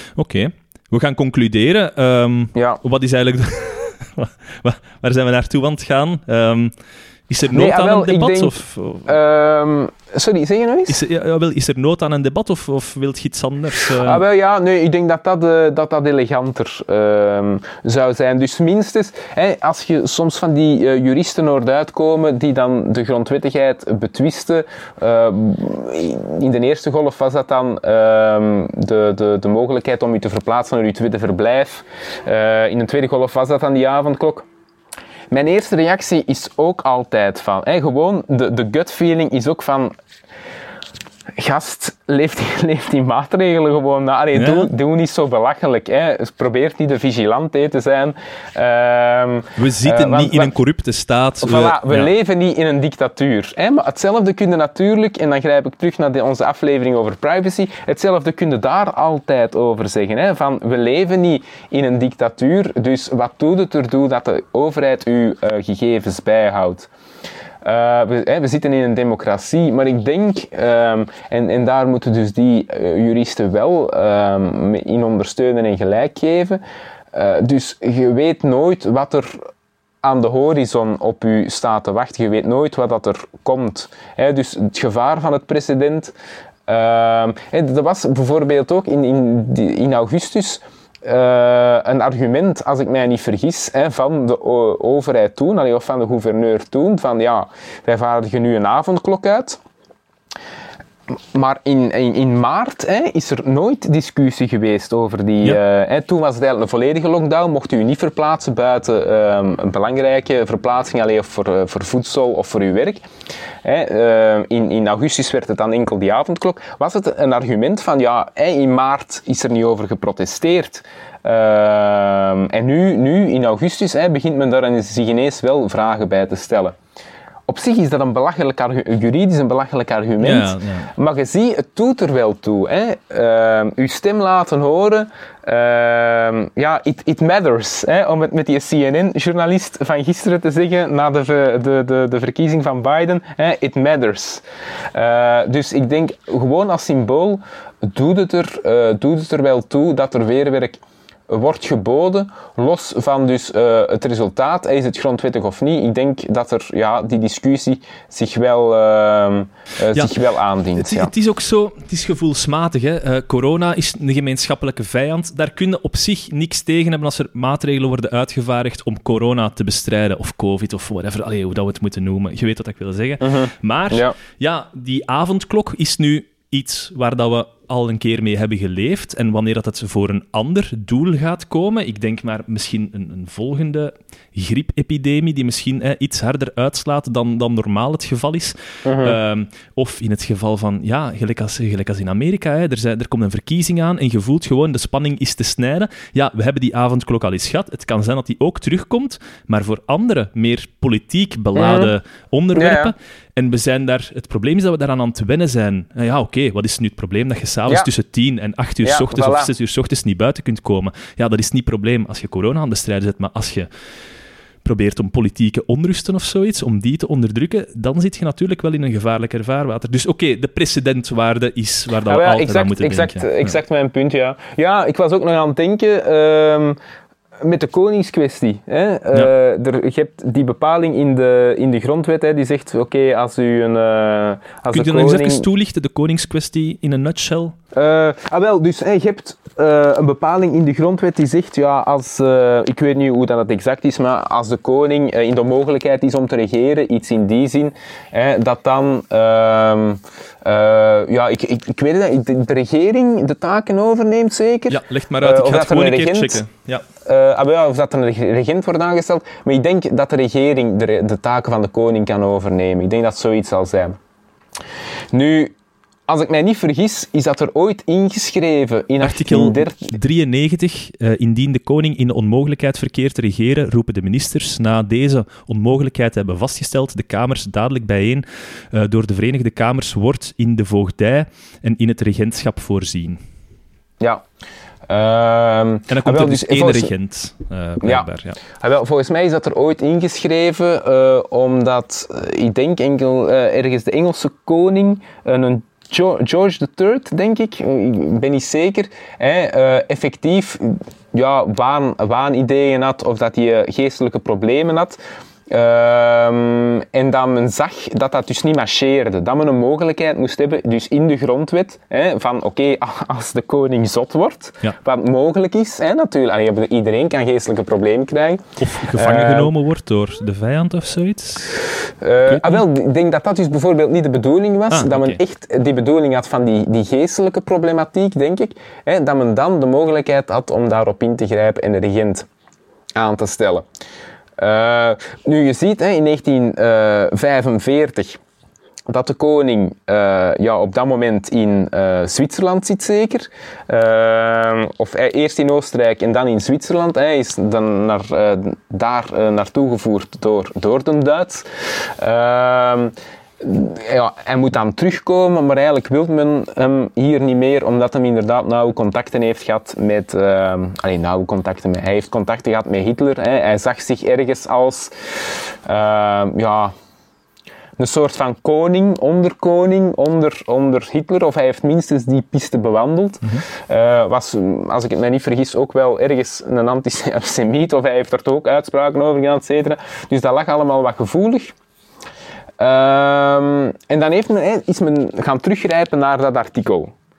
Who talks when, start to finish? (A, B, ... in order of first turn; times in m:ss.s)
0:00.2-0:06.7 A
0:02.6-0:02.8 B
0:07.3-0:09.1 A
0:07.5-0:11.0 B
0:10.9-0:14.2 A
0:14.0-0:34.5 B
0:35.3-0:39.9 B
0:41.4-0:50.5 B
0:44.3-0:44.7 A
0:49.6-0:52.1 A
0:51.4-1:06.9 B
1:07.6-1:16.6 B
1:17.1-1:19.4 B
1:20.0-1:26.1 B
1:26.7-1:39.6 B
1:41.3-1:53.0 B
1:53.6-2:06.8 B
2:07.5-2:24.4 B
2:10.2-2:10.9 A
2:24.9-2:41.1 B
2:40.8-3:33.7 A
2:53.2-2:54.2 B
3:08.8-3:09.2 B
3:21.6-3:21.9 B
3:22.6-3:22.9 B
3:28.8-3:29.5 B
3:34.6-3:43.6 A
3:42.1-3:46.8 B
3:47.4-3:55.5 B
3:54.7-3:57.6 A
3:57.7-4:16.4 B
4:14.7-4:16.8 A
4:17.0-4:24.0 B
4:25.1-4:25.5 B
4:26.1-4:30.0 B
4:29.0-4:43.2 A
4:44.9-4:46.9 B
4:45.9-4:48.4 A
4:47.8-5:19.5 B
5:18.6-5:21.6 A
5:22.0-5:32.3 B
5:22.3-5:22.6 A
5:24.7-5:25.2 A
5:33.0-5:33.6 B
5:34.4-5:38.2 B
5:38.9-5:51.4 B
5:52.0-6:04.9 B
6:05.6-6:06.7 B
6:07.8-6:21.5 B
6:22.6-6:26.9 B